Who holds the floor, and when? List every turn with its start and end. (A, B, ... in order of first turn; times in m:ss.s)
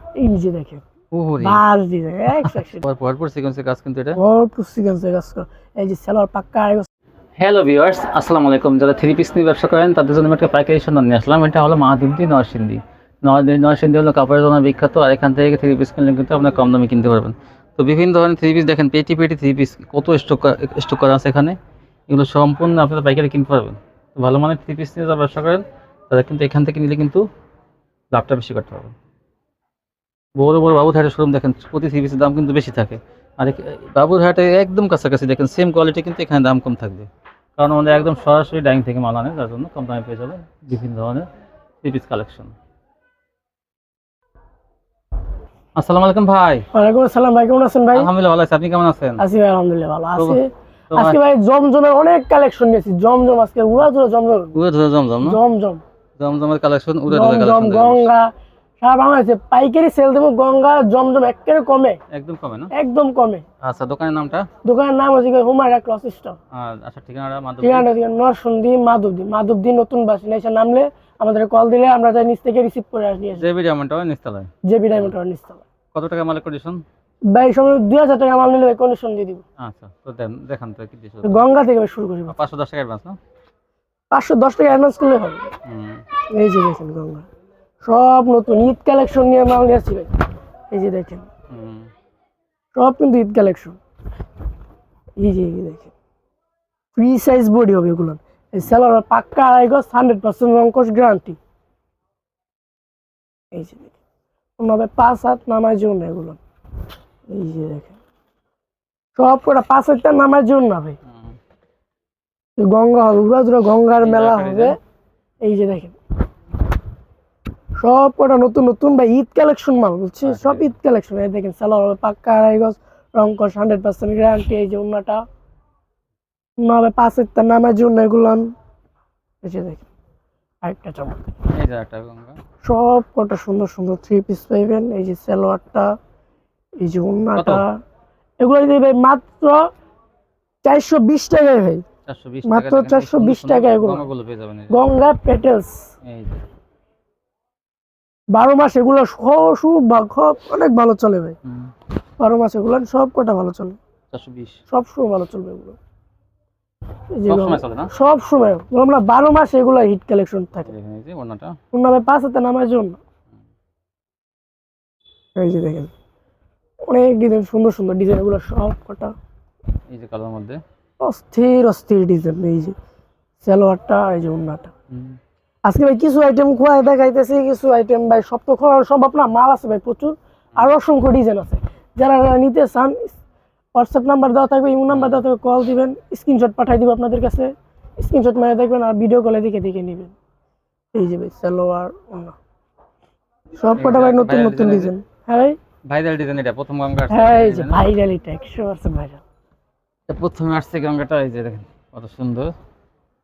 0:00.2-0:00.8 A
0:01.1-0:01.6 B
0:01.4-0:02.8 A
0:02.4-0:04.2 B
0:04.2-0:06.9 A
0:07.4-0:21.6 B
0:22.1-0:27.3 B
0:28.1-0:28.9 B
0:30.4-0:41.3 B
0:41.8-0:42.5 B
0:45.8-0:46.7 B
0:46.7-0:48.1 A
0:47.9-0:49.2 B
0:49.2-0:54.6 A
0:50.9-0:51.2 B
0:54.6-0:55.4 B
0:55.2-0:55.8 A
0:56.2-0:58.1 B
0:57.1-0:58.3 A
0:58.8-1:02.0 A
1:02.1-1:02.7 B
1:02.7-1:03.4 A
1:03.6-1:04.5 B
1:04.6-1:06.4 A
1:06.5-1:07.9 B
1:07.6-1:13.5 A
1:13.4-1:15.1 B
1:14.7-1:15.6 A
1:15.9-1:16.8 B
1:17.3-1:19.4 A
1:19.6-1:21.5 B
1:21.2-1:22.4 A
1:22.3-1:23.2 B
1:24.1-1:25.5 A
1:25.7-1:26.0 B
1:26.3-1:27.3 A
1:27.8-1:30.1 A
1:30.7-1:31.3 A
1:31.5-1:31.9 B
1:32.8-1:33.8 A
1:35.2-1:35.9 A
1:37.0-1:41.4 A
1:43.5-1:44.0 A
1:44.6-1:46.4 A
1:47.3-1:48.0 A
1:49.2-1:51.0 A
1:51.1-1:51.4 B
1:52.6-1:54.8 A
1:54.0-1:54.8 B
1:55.4-1:56.0 A
1:57.8-2:05.2 A
2:00.2-2:00.8 B
2:06.6-2:08.5 A
2:09.4-2:09.9 A
2:10.6-2:11.3 A
2:11.5-2:12.4 B
2:12.6-2:15.9 A
2:16.8-2:17.8 A
2:17.4-2:17.7 B
2:18.4-2:19.6 A
2:20.6-2:21.8 A
2:22.1-2:24.8 B
2:22.5-2:24.1 A
2:24.7-2:25.9 A
2:26.0-2:26.4 B
2:28.3-2:31.4 A
2:31.4-2:31.7 B
2:32.2-2:33.8 A
2:34.1-2:34.6 B
2:34.7-2:35.8 A
2:37.1-2:40.7 A
2:37.3-2:37.9 B
2:40.6-2:41.6 B
2:41.7-2:43.0 A
2:45.4-2:45.9 A
2:46.9-2:49.1 A
2:49.9-2:50.6 B
2:51.0-2:52.8 A
2:53.4-2:54.7 A
2:54.9-2:55.2 B
2:55.6-3:03.2 A
3:03.8-3:10.1 A
3:04.9-3:05.2 B
3:10.9-3:12.4 A
3:13.6-3:15.6 A
3:13.8-3:14.9 B
3:15.9-3:17.8 B
3:17.1-3:19.2 A
3:20.1-3:22.5 B